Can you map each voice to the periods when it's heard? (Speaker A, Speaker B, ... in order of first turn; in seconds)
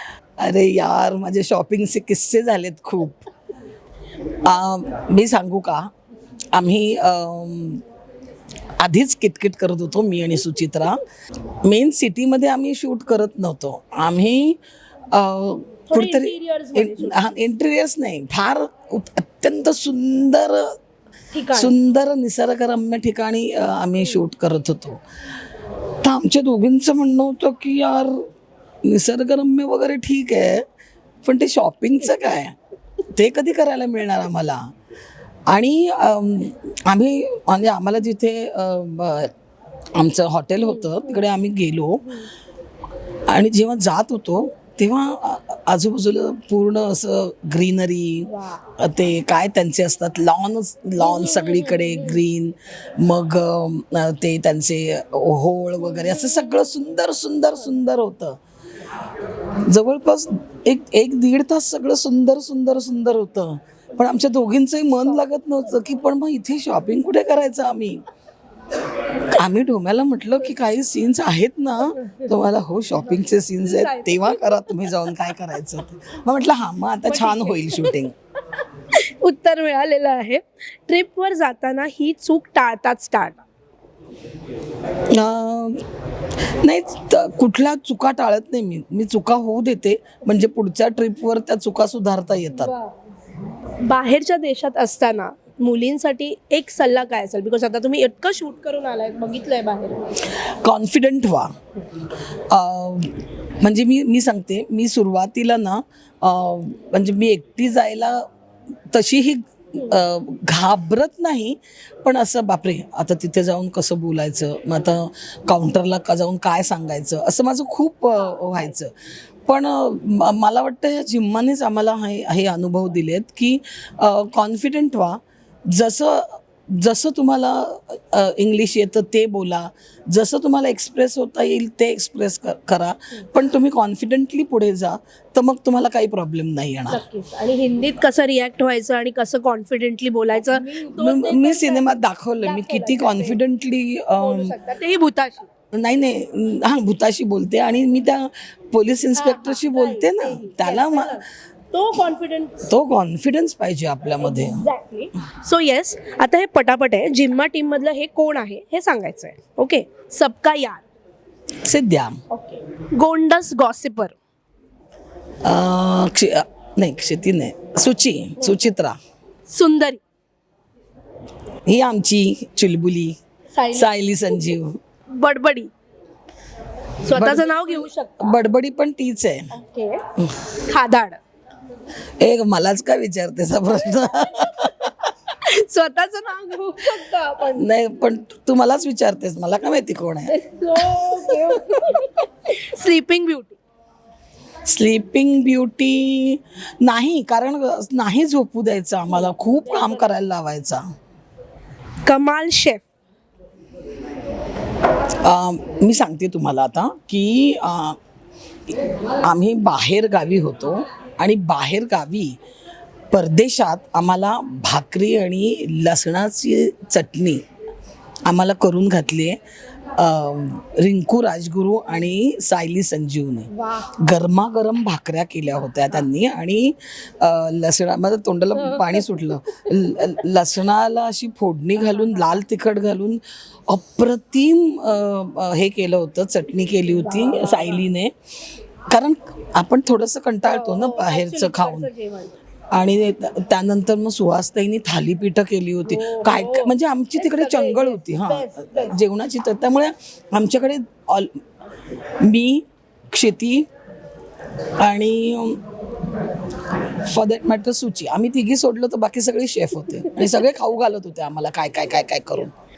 Speaker A: 0.4-3.2, 4.4-5.9, 6.5-7.8, 8.8-11.0, 11.7-14.6, 15.1-20.8, 21.5-25.0, 26.0-28.3, 28.9-30.6, 31.2-32.6, 33.1-34.7, 35.5-39.3, 40.0-42.2, 43.3-58.4, 59.7-68.0, 69.3-78.1, 85.1-85.8, 86.6-92.7, 100.3-101.6, 102.5-108.3, 108.9-118.9, 119.5-137.0, 140.7-144.5, 145.7-151.2, 152.7-154.7, 161.6-162.2, 165.4-169.0, 171.7-173.2, 173.7-174.8, 177.1-179.5, 182.2-185.1, 187.6-192.0, 194.7-200.8, 205.2-208.0, 209.2-212.4, 213.1-217.4, 218.3-219.4, 220.0-238.1, 238.9-241.9, 242.7-251.4, 252.2-253.7, 254.8-255.6, 257.0-262.5
Speaker B: 15.9-17.3, 21.3-21.7, 40.6-41.1, 48.3-48.6, 51.0-52.2, 55.9-56.6, 73.4-75.3, 77.1-78.0, 78.9-83.4, 92.6-93.0, 93.8-100.1, 118.2-118.8, 136.9-143.4, 144.2-145.5, 149.2-152.7, 154.2-160.8, 162.3-164.2, 168.4-168.7, 169.5-170.0, 173.5-174.6, 175.1-175.7, 177.1-178.4, 179.5-180.0, 180.6-181.2, 184.2-184.7, 185.3-187.7, 190.3-193.6, 199.1-200.2, 202.1-202.8, 223.5-223.9, 228.6-229.2, 231.9-232.2, 236.9-237.9, 240.4-242.3, 245.9-249.0